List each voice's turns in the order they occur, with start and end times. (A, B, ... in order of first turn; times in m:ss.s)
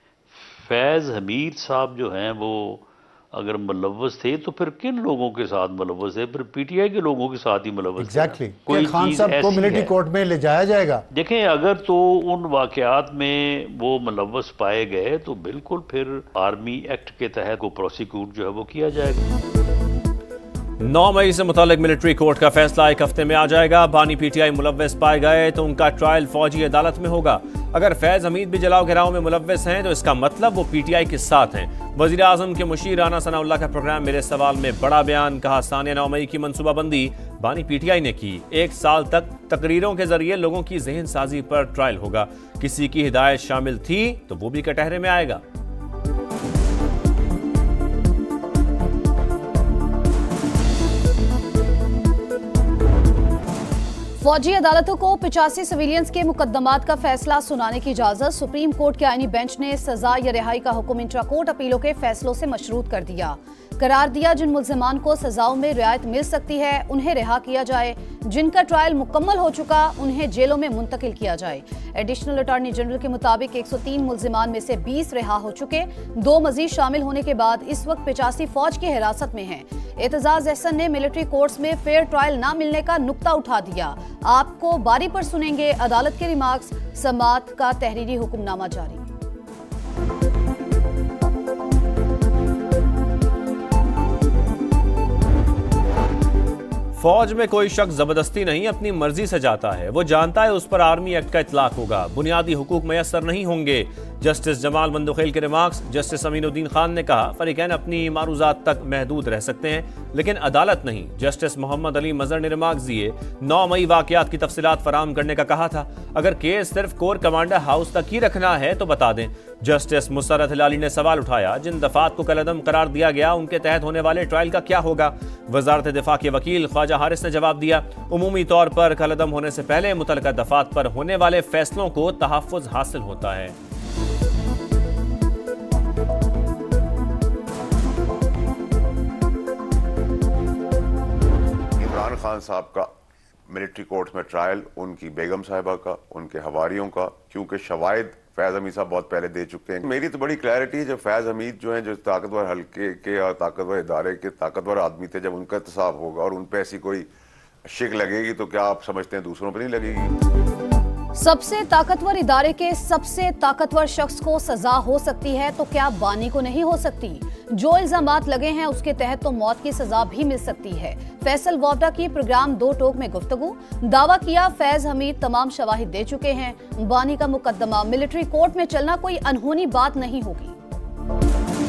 0:00.3-0:09.9 A
0:08.0-0:11.0 B
0:11.1-0:19.3 A
0:20.8-0:45.4 C
0:54.2-1:29.1 D
1:37.0-2:13.6 C
2:21.8-2:22.9 E
2:23.5-2:37.1 E
2:37.6-2:40.1 E
2:41.1-3:00.5 D